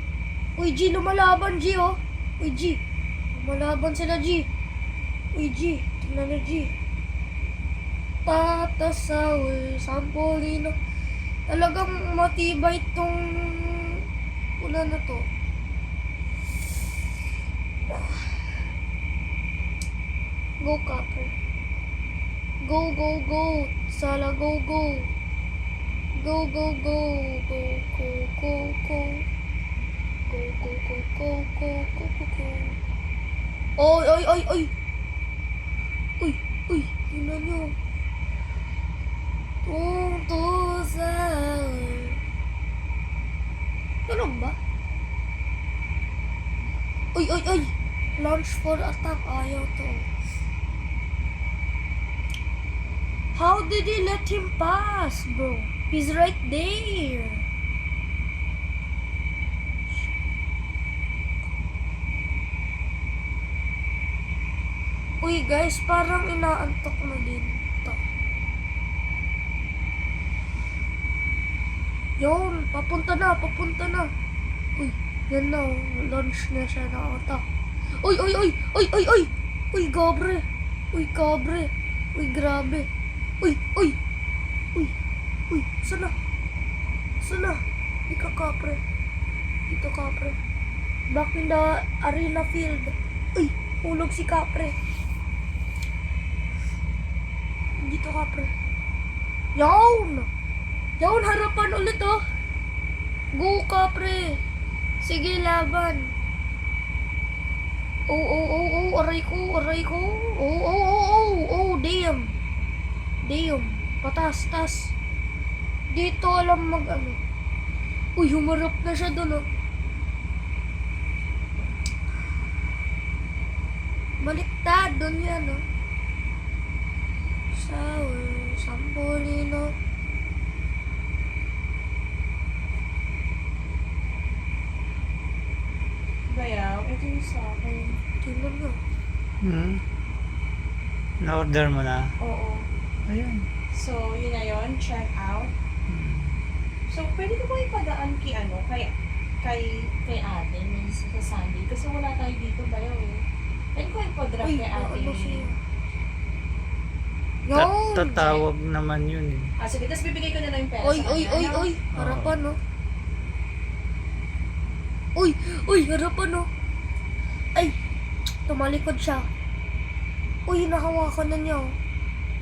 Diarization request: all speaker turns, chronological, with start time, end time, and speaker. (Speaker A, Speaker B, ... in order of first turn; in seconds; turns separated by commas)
Speaker A: 0.6-2.8, Speaker A: 3.3-4.5, Speaker A: 5.3-6.7, Speaker A: 8.2-10.7, Speaker A: 11.5-14.0, Speaker A: 14.6-15.3, Speaker A: 17.9-18.4, Speaker A: 20.6-21.3, Speaker A: 22.6-25.1, Speaker A: 26.2-29.3, Speaker A: 30.3-32.8, Speaker A: 33.8-34.7, Speaker A: 36.2-37.8, Speaker A: 39.6-42.2, Speaker A: 44.1-44.6, Speaker A: 47.1-50.1, Speaker A: 53.3-57.5, Speaker A: 65.2-68.0, Speaker A: 72.2-74.1, Speaker A: 74.8-77.5, Speaker A: 78.0-82.9, Speaker A: 83.4-84.0, Speaker A: 85.5-86.1, Speaker A: 87.2-88.8, Speaker A: 89.7-90.4, Speaker A: 91.1-94.8, Speaker A: 97.8-98.5, Speaker A: 99.5-100.3, Speaker A: 101.0-102.2, Speaker A: 103.3-104.4, Speaker A: 105.0-106.1, Speaker A: 108.1-112.3, Speaker A: 113.2-114.9, Speaker A: 115.9-117.2, Speaker A: 118.2-119.5, Speaker A: 124.2-125.6, Speaker A: 127.5-129.8, Speaker B: 136.3-137.6, Speaker A: 137.7-138.8, Speaker C: 139.4-139.8, Speaker C: 141.2-142.2, Speaker B: 142.2-142.7, Speaker C: 143.1-143.5, Speaker B: 143.7-145.5, Speaker C: 145.9-146.4, Speaker B: 146.9-155.5, Speaker A: 154.4-155.6, Speaker A: 157.4-158.4, Speaker C: 157.5-159.6, Speaker B: 159.6-161.7, Speaker A: 160.8-162.6, Speaker C: 161.9-162.4, Speaker A: 165.2-166.5, Speaker A: 168.5-169.3, Speaker A: 170.5-171.8